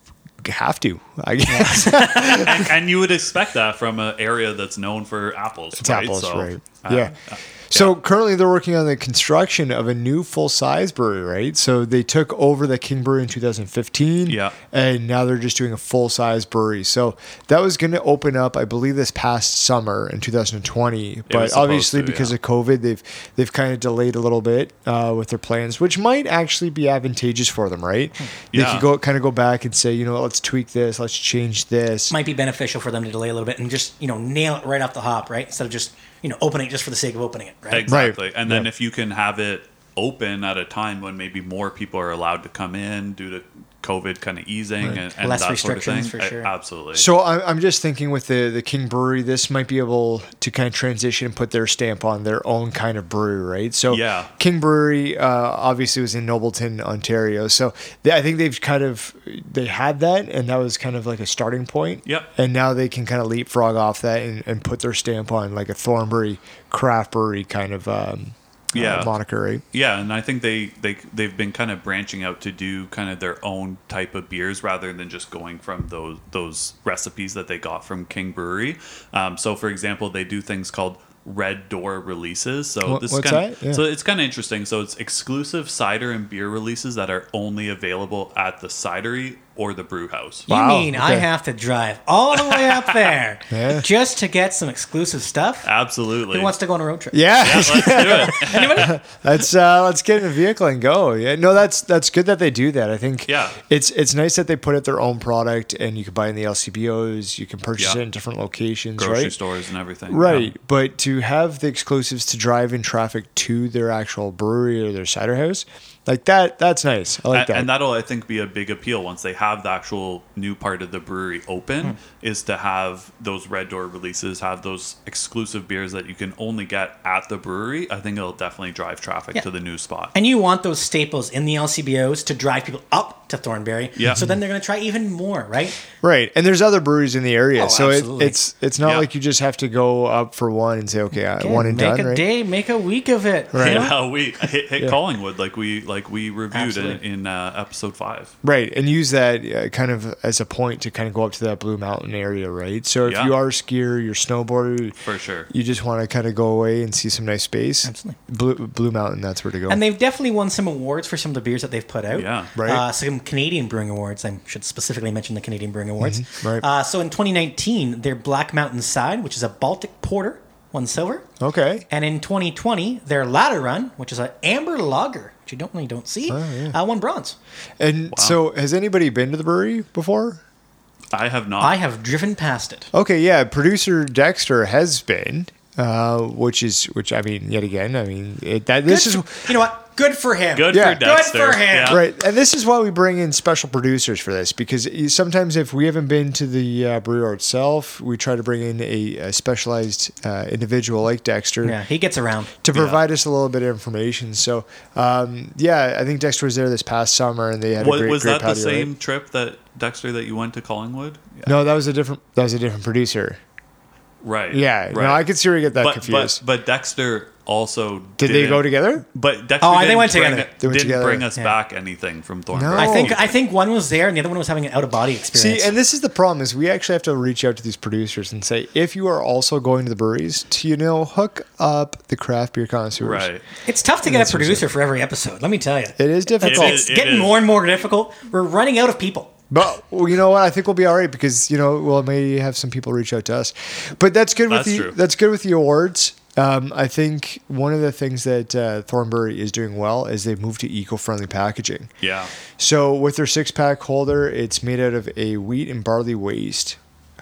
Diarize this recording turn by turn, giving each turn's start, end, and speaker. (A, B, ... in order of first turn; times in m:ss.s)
0:00.4-0:02.7 A
0:01.5-0:02.4 B
0:01.7-0:07.9 C
0:05.8-0:07.1 A
0:07.7-0:32.1 A
0:14.3-0:14.6 C
0:21.3-0:22.4 C
0:28.5-0:28.9 C
0:32.1-0:37.9 B
0:37.7-0:47.1 C
0:37.9-0:38.7 A
0:45.2-0:46.5 B
0:46.9-1:09.6 A
0:53.9-0:54.3 C
1:08.7-1:09.1 C
1:09.7-1:30.5 C
1:22.8-1:23.8 A
1:30.5-1:35.7 B
1:30.5-1:31.3 A
1:32.3-1:33.1 C
1:33.5-1:33.8 A
1:35.6-1:36.5 C
1:36.3-1:37.3 B
1:37.1-1:49.3 A
1:37.4-1:39.0 C
1:37.8-1:39.0 B
1:43.3-1:43.6 C
1:49.0-1:50.5 C
1:50.1-1:57.7 A
1:57.3-2:10.1 C
2:10.1-2:15.8 B
2:14.0-2:14.3 C
2:14.1-2:14.4 A
2:16.0-2:22.2 A
2:17.6-2:18.4 B
2:18.8-2:19.1 C
2:21.4-2:23.9 B
2:23.5-2:23.9 A
2:23.6-2:28.3 C
2:26.5-2:27.0 B
2:28.4-2:35.0 A
2:33.0-2:33.3 C
2:35.0-2:35.5 C
2:35.5-2:39.8 A
2:37.8-2:38.2 B
2:39.7-2:51.2 B
2:42.1-2:42.5 C
2:42.5-2:42.8 A
2:46.0-2:46.6 A
2:51.4-2:51.8 A
2:51.9-2:57.4 B
2:56.3-2:56.8 A
2:57.8-3:00.4 A
2:58.1-2:58.4 C
3:01.1-3:01.8 C
3:01.6-3:02.9 B
3:02.9-3:09.5 A
3:08.8-3:12.0 B
3:10.5-3:12.0 C
3:10.7-3:11.0 A
3:11.8-3:21.8 A
3:21.6-3:22.5 B
3:22.6-3:28.9 A
3:22.7-3:23.0 C
3:27.8-3:31.6 C
3:31.4-3:33.4 A
3:34.2-3:43.3 C
3:34.5-3:36.4 A
3:38.2-3:39.0 A
3:39.6-3:40.5 B
3:40.3-3:41.3 A
3:42.5-3:43.3 A
3:42.7-3:45.7 B
3:45.3-3:53.3 A
3:53.0-3:53.4 C
3:53.6-3:59.3 B
3:54.0-3:54.7 A
3:56.0-3:56.8 A
3:56.4-3:57.5 C
3:59.5-4:11.9 A
4:04.5-4:05.0 C
4:12.0-4:12.3 C
4:12.6-4:16.8 A